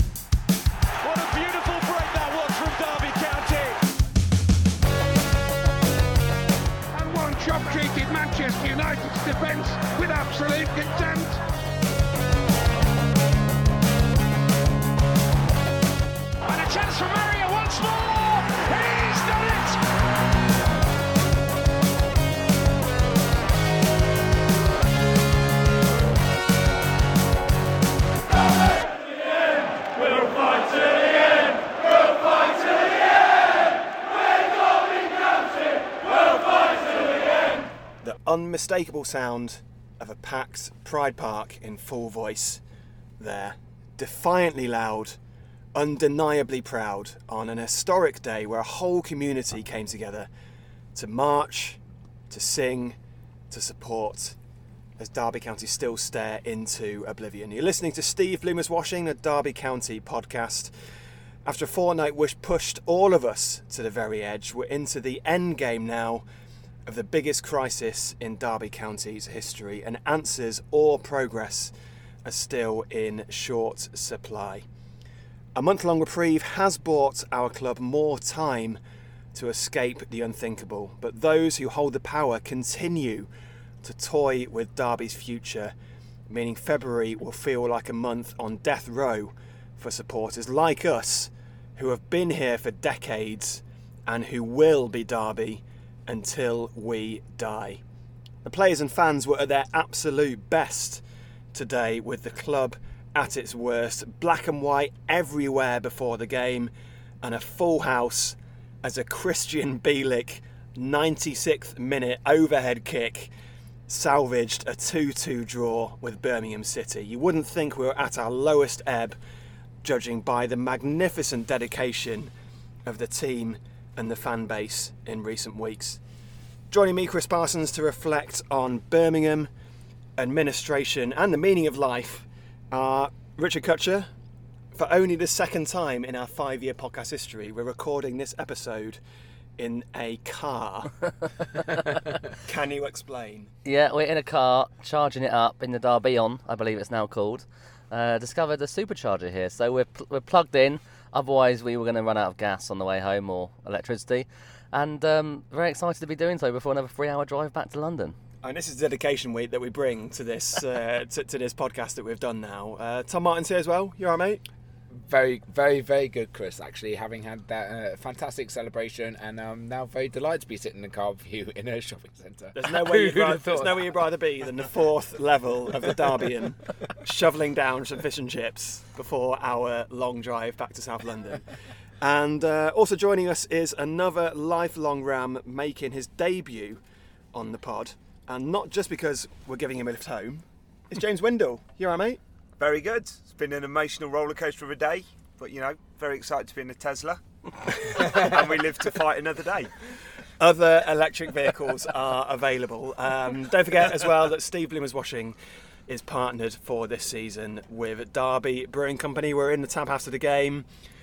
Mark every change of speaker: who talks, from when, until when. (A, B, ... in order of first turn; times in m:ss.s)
0:01.0-0:03.8 A
0:07.0-0:11.4 B
0:16.5-0:19.8 A
0:38.0-0:42.6 C
0:43.2-0:45.2 C
0:45.7-0:50.3 C
0:51.0-0:51.8 C
0:52.3-0:53.0 C
0:53.5-0:54.4 C
0:55.0-1:00.7 C
1:01.4-1:06.2 C
1:06.9-1:11.7 C
1:12.2-1:14.7 C
1:15.6-1:18.8 C
1:19.3-1:23.3 C
1:23.8-1:25.7 C
1:26.3-1:37.8 C
1:38.4-1:41.0 C
1:41.5-1:53.3 C
1:53.9-1:59.2 C
1:59.8-2:02.3 C
2:02.9-2:06.0 C
2:06.7-2:09.5 C
2:10.2-2:14.1 C
2:14.7-2:19.0 C
2:19.6-2:21.0 C
2:22.4-2:23.5 C
2:23.6-2:38.2 D
2:38.4-2:44.4 C
2:45.0-2:53.8 E
2:52.5-3:01.4 C
3:02.0-3:06.8 C
3:07.3-3:12.2 C
3:12.6-3:19.7 F
3:20.4-3:25.4 C
3:25.9-3:30.7 C